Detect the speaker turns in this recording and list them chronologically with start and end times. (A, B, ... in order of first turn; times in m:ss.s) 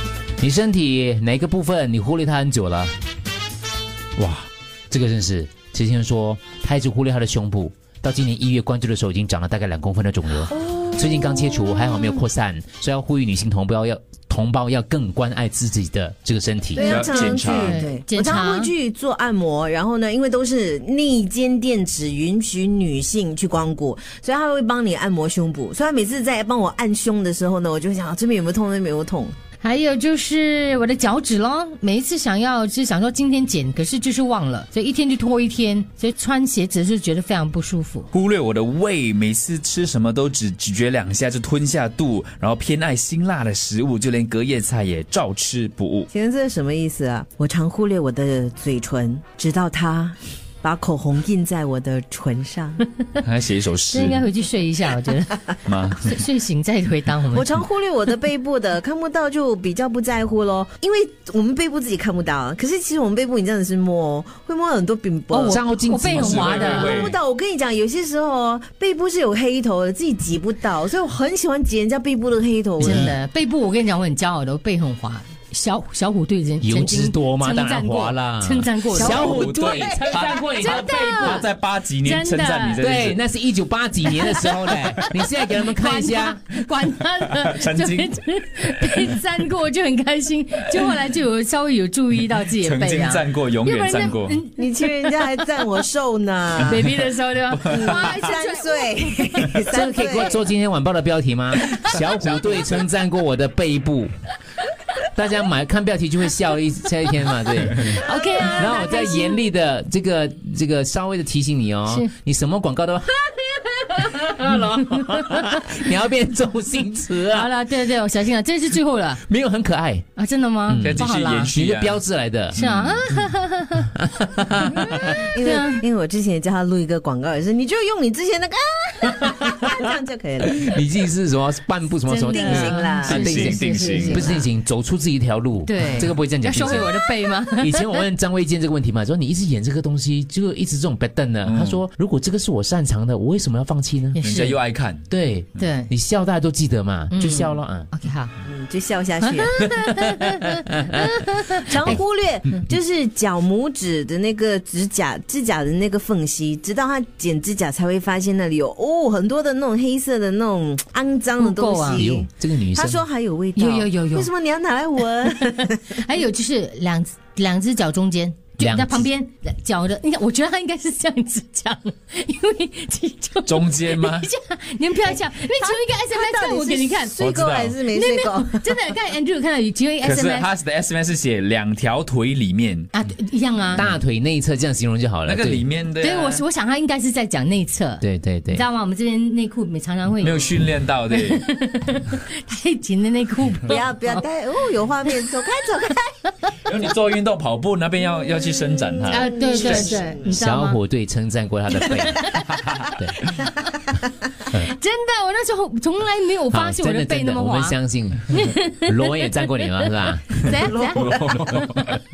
0:00.4-0:02.9 A
0:04.2-0:16.9 A
0:10.5-0:12.0 B
0:16.7-0:29.3 B
0:16.8-0:17.8 C
0:16.8-0:18.7 D
0:29.6-0:38.1 D
0:38.1-0:46.1 C
0:46.1-0:52.8 B
0:53.2-0:54.2 C
0:53.9-0:57.6 D
0:55.6-0:56.2 C
0:57.3-1:05.6 B
1:05.3-1:07.0 D
1:05.5-1:06.6 A
1:06.1-1:07.2 C
1:06.4-1:13.2 B
1:12.8-1:21.5 D
1:12.8-1:13.1 A
1:16.6-1:21.4 A
1:18.9-1:23.2 C
1:19.3-1:19.8 B
1:22.0-1:22.8 D
1:22.8-1:26.4 A
1:24.1-1:24.8 D
1:25.5-1:35.6 D
1:27.3-1:28.1 C
1:32.5-1:34.4 C
1:34.6-1:36.8 B
1:36.6-1:39.2 D
1:37.6-1:40.4 B
1:37.7-1:38.1 C
1:39.7-1:44.1 A
1:41.9-1:42.8 C
1:45.1-1:57.5 A
1:47.8-1:49.4 D
1:47.9-1:48.6 B
1:57.3-1:59.2 D
1:59.3-2:00.0 A
2:00.2-2:01.5 D
2:00.7-2:02.6 A
2:00.8-2:02.0 C
2:02.5-2:03.0 C
2:02.5-2:03.9 D
2:04.1-2:05.0 A
2:04.8-2:05.8 D
2:04.8-2:10.7 B
2:09.1-2:09.8 A
2:10.5-2:13.5 A
2:12.1-2:14.4 D
2:12.2-2:14.4 B
2:13.0-2:14.2 C
2:14.0-2:16.9 A
2:15.6-2:18.0 D
2:17.6-2:24.2 A
2:21.4-2:21.8 C
2:24.1-2:24.6 D
2:24.2-2:25.0 C
2:25.1-2:27.9 A
2:25.6-2:25.9 D
2:27.1-2:28.3 D
2:28.4-2:29.6 B
2:29.3-2:32.0 D
2:29.7-2:30.1 A
2:31.7-2:46.0 B
2:41.4-2:42.1 D
2:41.9-2:43.0 A
2:43.6-2:44.3 D
2:45.4-2:57.2 D
2:48.6-2:49.1 A
2:53.4-2:54.3 C
2:55.1-2:58.8 B
2:57.2-2:57.8 C
2:57.9-3:00.5 D
3:00.0-3:02.9 C
3:02.9-3:03.9 D
3:03.7-3:05.6 A
3:05.2-3:06.4 C
3:06.0-3:10.6 D
3:08.0-3:08.6 A
3:10.2-3:11.4 C
3:11.1-3:14.2 D
3:13.6-3:16.2 B
3:16.6-3:20.0 C
3:19.1-3:20.8 D
3:19.1-3:20.4 B
3:20.3-3:23.3 A
3:22.1-3:23.8 D
3:22.4-3:22.9 C
3:24.5-3:29.4 D
3:26.5-3:30.6 A
3:30.3-3:31.7 D
3:30.7-3:31.2 B
3:30.8-3:32.0 C